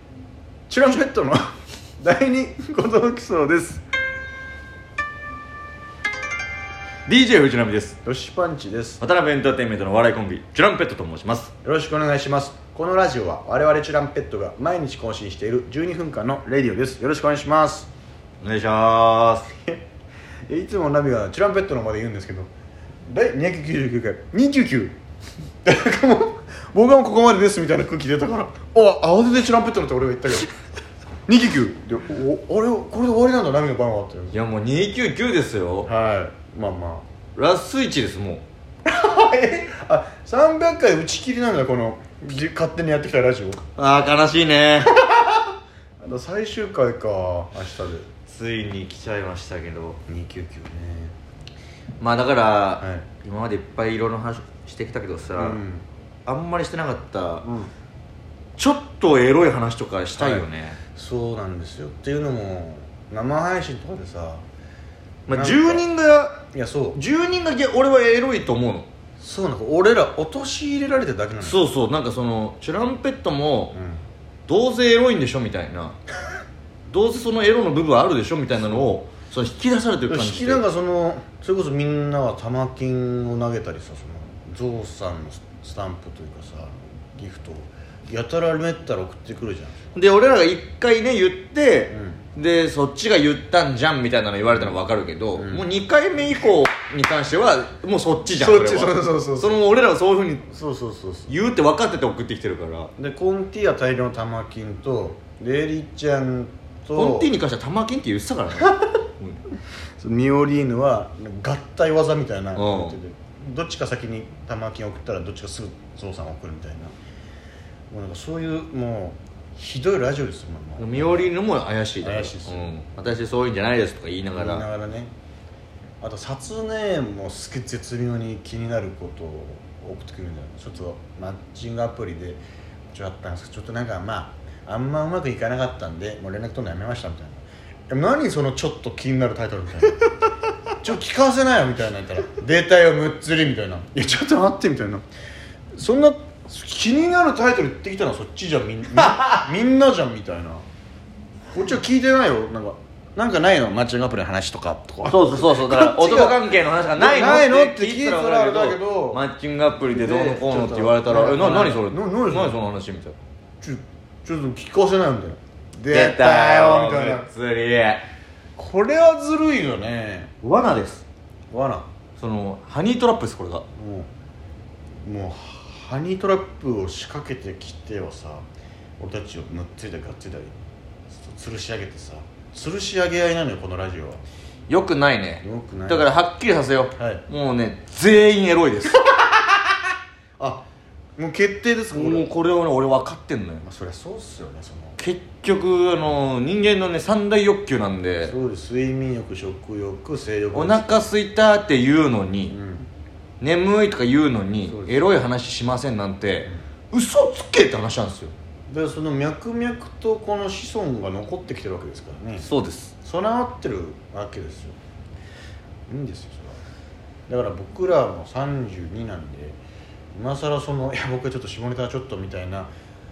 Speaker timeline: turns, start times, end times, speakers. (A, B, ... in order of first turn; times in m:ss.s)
0:00.7-0:01.4 A
0:02.0-0:03.8 A
0:07.1-0:08.0 B
0:08.0-0:09.0 A
0:09.0-0:11.5 B
0:11.6-0:17.9 A
0:18.4-0:19.5 B
0:20.5-0:22.5 A
0:23.1-0:25.0 A
0:25.6-0:30.5 A
0:31.3-0:34.4 A
0:34.3-0:35.9 B
0:35.9-0:37.1 A
0:37.4-0:38.4 B
0:38.8-0:43.6 A
0:43.8-0:44.9 B
0:45.0-0:45.5 A
0:46.0-0:48.1 A
0:48.3-0:50.0 B
0:50.1-0:51.2 A
0:52.0-0:55.6 B
0:52.8-0:53.1 A
0:55.4-0:55.9 A
0:56.3-0:57.5 B
0:57.4-0:57.7 A
0:58.6-1:00.8 B
1:00.2-1:04.4 A
1:05.3-1:06.4 B
1:05.3-1:05.8 A
1:06.5-1:07.0 A
1:06.9-1:08.9 B
1:09.2-1:11.6 A
1:11.4-1:13.8 B
1:13.7-1:14.0 A
1:14.5-1:16.0 B
1:16.9-1:20.6 B
1:20.1-1:29.8 A
1:29.9-1:40.5 B
1:31.9-1:32.2 A
1:35.4-1:35.7 A
1:38.3-1:39.6 A
1:40.5-1:41.3 A
1:41.3-1:42.9 B
1:43.0-1:47.3 A
1:47.0-1:49.4 B
1:50.0-1:56.9 A
1:52.6-1:53.0 B
1:57.9-2:01.3 A
2:00.8-2:04.7 B
2:02.0-2:02.7 A
2:04.4-2:05.1 A
2:06.0-2:20.0 A
2:20.8-2:25.0 A
2:25.8-2:30.6 A
2:31.5-2:39.2 A
2:35.1-2:43.2 B
2:39.9-2:42.6 A
2:43.6-2:47.3 A
2:45.9-2:48.0 B
2:48.6-2:50.3 A
2:50.4-2:51.0 B
2:51.5-2:51.9 A
2:52.2-2:53.6 B
2:53.8-2:54.1 A
2:55.0-2:58.4 A
2:59.0-3:00.6 A
3:01.1-3:04.2 A
3:04.7-3:09.0 B
3:05.4-3:06.1 A
3:07.0-3:07.2 A
3:10.4-3:12.3 A
3:11.9-3:13.6 B
3:13.6-3:15.0 A
3:15.0-3:18.4 B
3:18.2-3:21.1 A
3:20.5-3:22.5 B
3:22.5-3:22.9 A
3:23.4-3:28.3 B
3:24.6-3:25.1 A
3:28.7-3:32.5 A
3:32.4-3:32.9 B
3:33.0-3:34.8 A
3:35.9-3:36.6 A
3:37.3-3:39.6 A
3:40.1-3:42.7 A